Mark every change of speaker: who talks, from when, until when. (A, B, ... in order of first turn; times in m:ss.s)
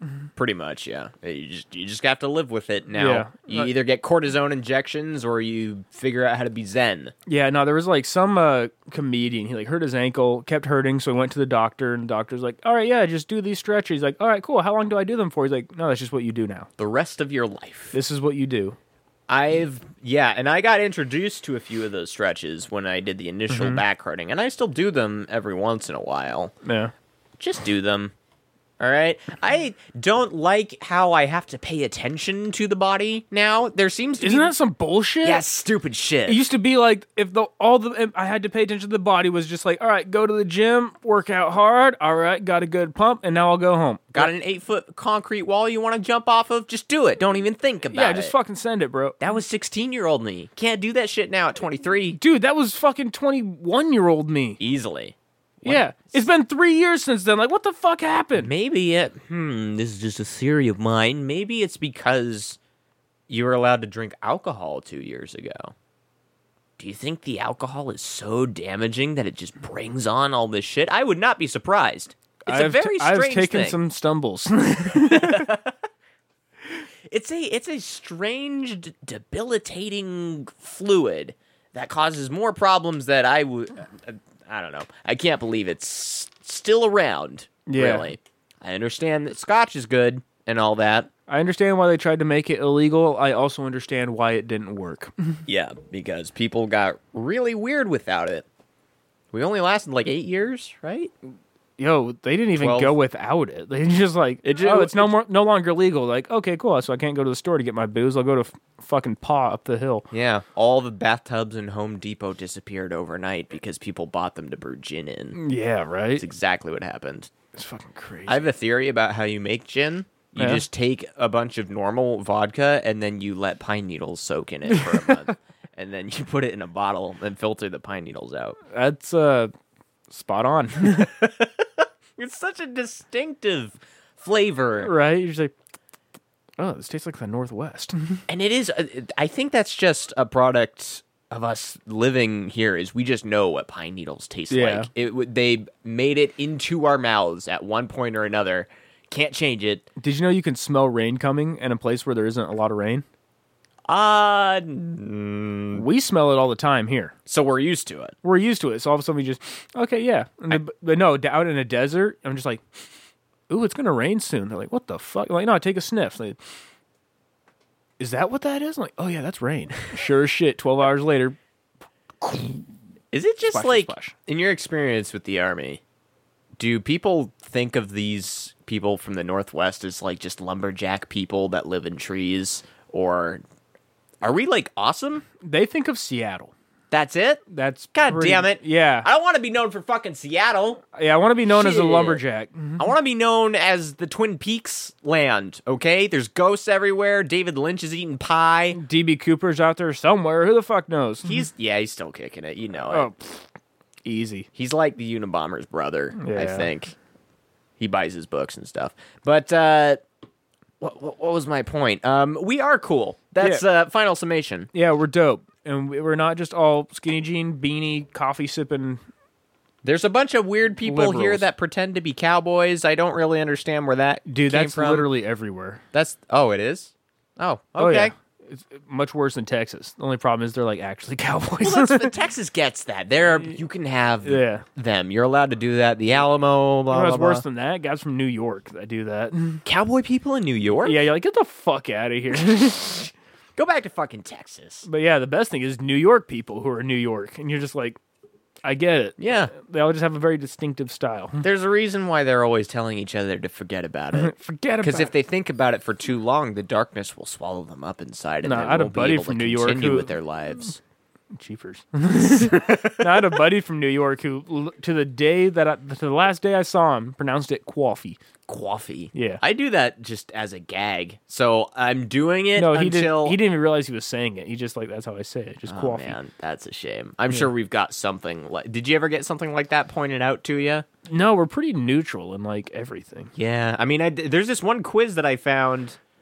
0:00.4-0:07.1 A
0:02.9-0:03.7 B
0:07.3-0:16.7 B
0:16.8-0:18.0 A
0:17.9-0:18.8 B
0:19.3-0:26.5 A
0:23.5-0:23.8 B
0:26.6-0:26.9 B
0:27.4-0:28.1 A
0:28.8-0:34.5 A
0:34.2-0:35.4 B
0:35.2-0:36.4 A
0:36.2-0:44.3 B
0:44.1-0:48.3 A
0:47.9-0:49.2 B
0:49.2-0:52.2 A
0:52.2-0:54.6 B
0:54.6-0:56.2 A
0:55.6-0:58.5 B
0:58.4-1:02.6 A
1:03.3-1:05.7 A
1:06.8-1:13.8 A
1:12.5-1:15.5 B
1:14.9-1:15.8 A
1:17.1-1:31.1 A
1:27.6-1:28.1 B
1:31.3-1:35.4 B
1:35.5-1:38.4 A
1:39.3-1:41.1 A
1:41.8-1:50.1 B
1:42.6-1:42.9 A
1:44.4-1:45.2 A
1:50.1-1:55.4 A
1:55.3-1:56.2 B
1:56.2-1:57.3 A
1:57.5-1:58.4 B
1:58.3-2:08.6 A
2:00.4-2:00.6 B
2:04.7-2:05.3 B
2:08.7-2:09.5 B
2:10.1-2:11.1 B
2:10.8-2:14.9 A
2:14.8-2:15.5 B
2:16.6-2:18.2 B
2:18.3-2:29.9 A
2:24.5-2:24.9 B
2:30.0-2:33.0 B
2:33.9-2:35.8 A
2:35.7-2:37.1 B
2:37.2-2:38.1 A
2:38.2-2:42.6 B
2:43.5-2:46.4 B
2:48.0-2:51.4 B
2:52.2-2:52.6 B
2:53.1-2:55.8 A
2:53.5-2:54.1 B
2:56.6-3:03.4 A
3:04.2-3:05.2 A
3:05.4-3:06.5 B
3:06.9-3:10.8 A
3:07.5-3:09.1 B
3:10.9-3:12.8 B
3:11.4-3:12.2 A
3:12.8-3:18.8 A
3:18.7-3:21.4 B
3:21.2-3:23.1 A
3:22.9-3:23.5 B
3:24.0-3:24.5 B
3:24.5-3:26.9 A
3:26.2-3:26.7 B
3:27.8-3:30.0 A
3:30.8-3:34.7 A
3:34.7-3:39.0 B
3:39.8-3:45.1 A
3:40.8-3:41.4 B
3:44.2-3:45.8 B
3:45.9-3:48.1 A
3:47.8-3:52.1 B
3:51.6-3:57.4 A
3:54.2-3:54.6 B
3:56.9-3:59.6 B
3:59.6-4:01.0 A
4:00.8-4:03.1 B
4:03.6-4:04.9 A
4:04.8-4:08.0 B
4:08.6-4:11.4 B
4:09.2-4:09.5 A
4:11.4-4:20.8 A
4:14.2-4:15.1 B
4:18.4-4:20.1 B
4:21.3-4:28.2 B
4:22.2-4:23.4 A
4:28.5-4:33.4 A
4:29.1-4:29.4 B
4:32.6-4:36.2 B
4:35.7-4:40.8 A
4:41.1-4:43.3 B
4:43.4-4:46.0 A